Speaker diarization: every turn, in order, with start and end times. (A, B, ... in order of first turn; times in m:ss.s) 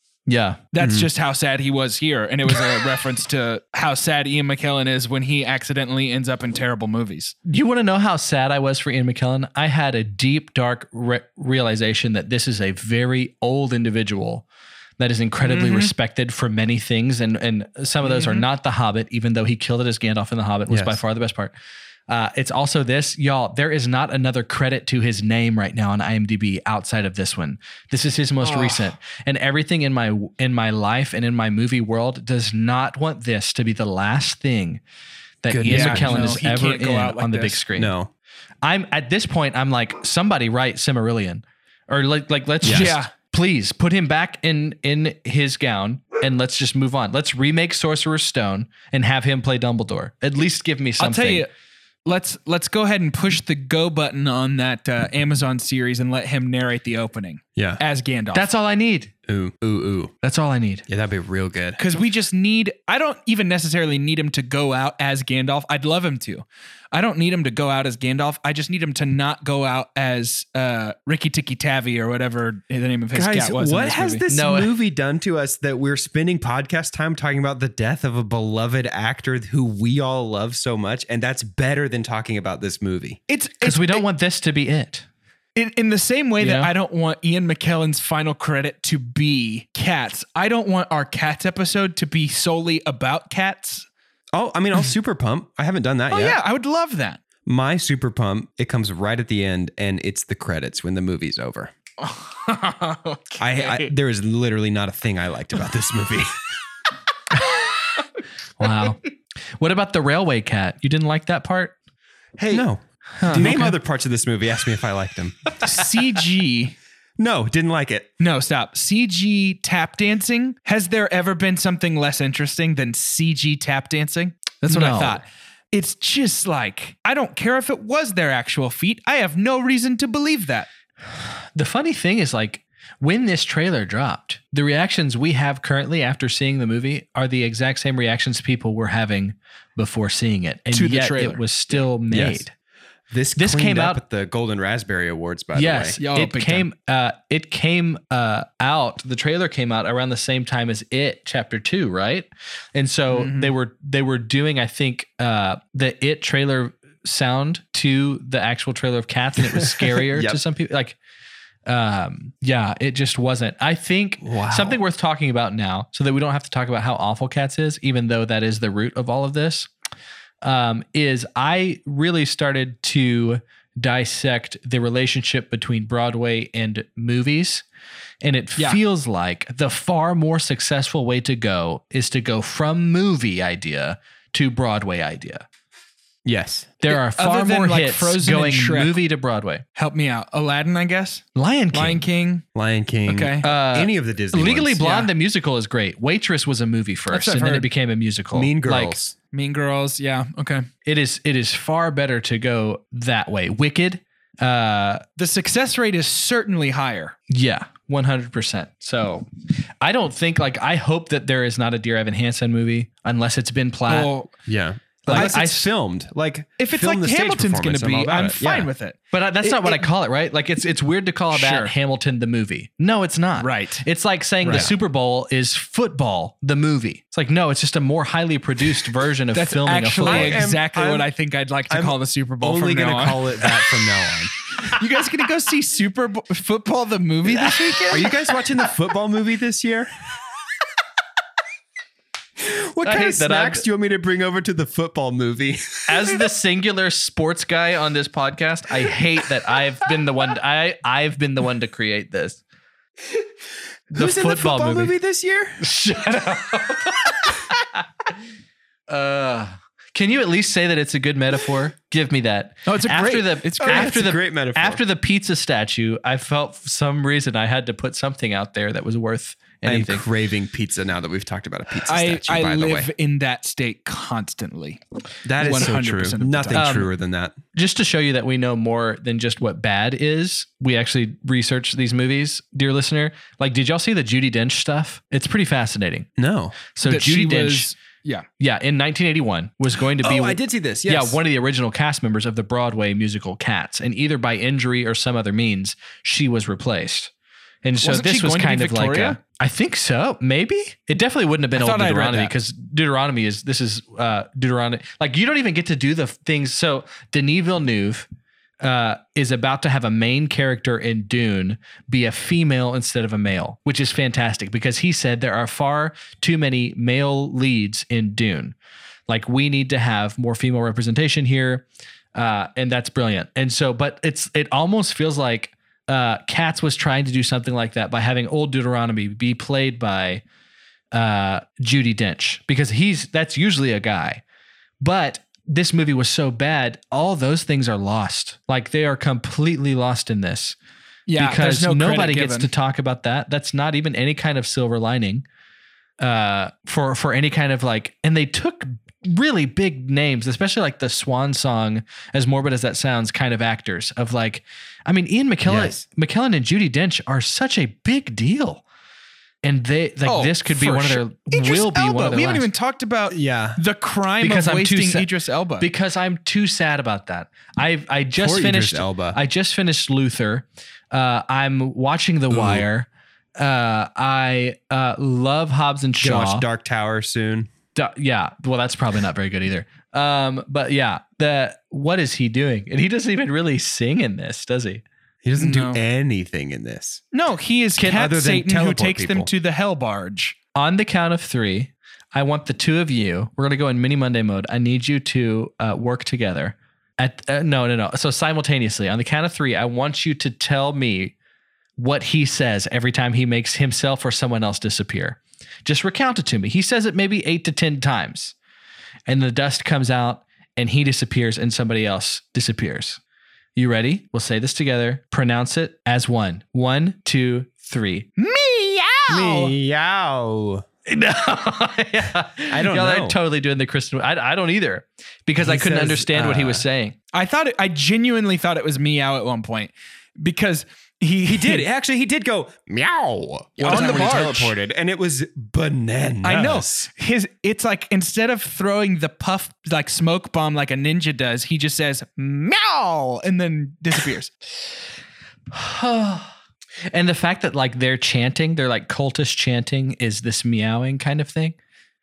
0:00.3-0:00.6 A
0:00.7-0:07.4 B
0:00.8-0:01.1 C
0:07.4-0:14.4 A
0:15.0-0:21.5 A
0:15.4-0:15.9 B
0:18.0-0:18.4 B
0:20.7-0:21.0 C
0:22.1-0:34.8 A
0:28.4-0:28.9 B
0:35.4-0:37.9 A
0:35.5-0:36.3 C
0:35.6-0:37.6 B
0:37.8-0:38.1 C
0:38.6-0:51.5 A
0:42.6-0:42.9 C
0:42.7-0:43.1 B
0:51.0-0:51.5 B
0:52.0-0:58.5 B
0:58.3-0:59.1 A
0:59.3-1:00.1 C
1:00.2-1:00.9 A
1:00.9-1:01.8 C
1:01.8-1:14.2 B
1:13.1-1:23.2 C
1:14.3-1:14.7 A
1:23.3-1:24.0 B
1:23.6-1:25.1 A
1:25.6-1:33.9 B
1:26.4-1:26.7 A
1:34.3-1:36.4 C
1:36.1-1:37.2 B
1:37.4-1:41.7 C
1:42.0-1:43.9 B
1:43.4-1:46.4 C
1:48.6-1:49.0 A
1:49.6-1:51.8 A
1:52.4-1:55.6 C
1:53.2-1:53.7 B
1:53.3-1:53.7 A
1:55.6-1:56.8 B
1:57.2-1:58.1 C
1:58.2-2:10.7 B
2:04.6-2:05.2 A
2:11.1-2:22.5 A
2:20.7-2:21.8 B
2:22.1-2:22.4 C
2:23.1-2:26.0 C
2:23.4-2:24.0 A
2:25.6-2:41.0 A
2:26.0-2:26.6 B
2:33.1-2:33.5 B
2:39.6-2:40.4 C
2:41.6-2:49.7 A
2:44.2-2:44.8 C
2:50.4-2:57.6 A
2:58.2-3:05.4 A
3:06.2-3:06.7 C
3:06.8-3:09.6 A
3:06.9-3:09.0 B
3:09.8-3:12.4 B
3:11.4-3:12.0 A
3:12.6-3:14.8 C
3:13.1-3:13.5 B
3:13.4-3:19.0 A
3:14.8-3:15.1 B
3:17.1-3:17.7 B
3:18.3-3:19.1 C
3:19.3-3:20.7 B
3:20.9-3:25.0 A
3:25.2-3:27.1 B
3:27.3-3:29.3 A
3:29.8-3:34.1 A
3:33.9-3:34.3 B
3:34.5-3:38.7 C
3:35.0-3:35.6 B
3:35.0-3:35.7 A
3:36.6-3:39.9 B
3:39.1-3:50.4 A
3:41.3-3:41.7 B
3:43.4-3:43.8 B
3:44.4-3:44.7 C
3:49.3-3:53.5 B
3:50.0-3:51.1 C
3:51.7-3:54.3 C
3:54.6-3:58.1 B
3:57.3-3:57.8 A
3:57.9-3:59.9 C
4:02.4-4:06.2 C
4:02.8-4:03.6 A
4:05.9-4:12.4 A
4:13.9-4:14.9 A
4:13.9-4:15.6 C
4:15.6-4:17.5 A
4:18.9-4:30.0 A
4:22.6-4:24.1 B
4:23.6-4:24.8 C
4:29.6-4:32.9 C
4:31.9-4:34.8 B
4:35.2-4:37.4 C
4:35.4-4:36.6 B
4:36.5-4:36.9 A
4:37.5-4:46.1 A
4:46.2-4:46.6 C
4:46.7-4:47.7 A
4:46.8-4:48.3 B
4:48.4-4:57.1 A
4:50.0-4:51.2 C
4:57.6-5:08.1 A
4:57.8-4:59.2 B
5:01.5-5:02.3 B
5:08.6-5:18.6 A
5:19.1-5:30.2 A
5:30.9-5:34.2 A
5:34.8-5:40.6 A
5:41.1-5:42.5 B
5:41.2-5:45.2 A
5:46.0-5:58.6 A
5:55.4-5:55.8 C
5:59.4-6:02.5 A
6:00.0-6:05.6 B
6:03.1-6:03.6 C
6:04.2-6:05.1 A
6:05.6-6:16.4 A
6:08.2-6:09.2 C
6:12.3-6:12.6 C
6:16.0-6:17.5 C
6:17.7-6:24.8 A
6:25.2-6:27.0 C
6:25.4-6:25.8 B
6:27.1-6:30.3 B
6:27.8-6:29.3 C
6:30.6-6:41.1 A
6:41.8-6:48.3 A
6:49.1-6:53.0 A
6:53.6-6:58.1 A
6:58.2-6:59.5 B
6:59.1-7:00.6 C
7:00.9-7:07.0 A
7:02.5-7:03.2 C
7:05.4-7:06.6 C
7:07.1-7:11.6 B
7:11.3-7:16.9 C
7:13.6-7:14.6 B
7:13.7-7:14.1 A
7:16.2-7:24.3 B
7:25.5-7:26.3 A
7:26.9-7:31.6 A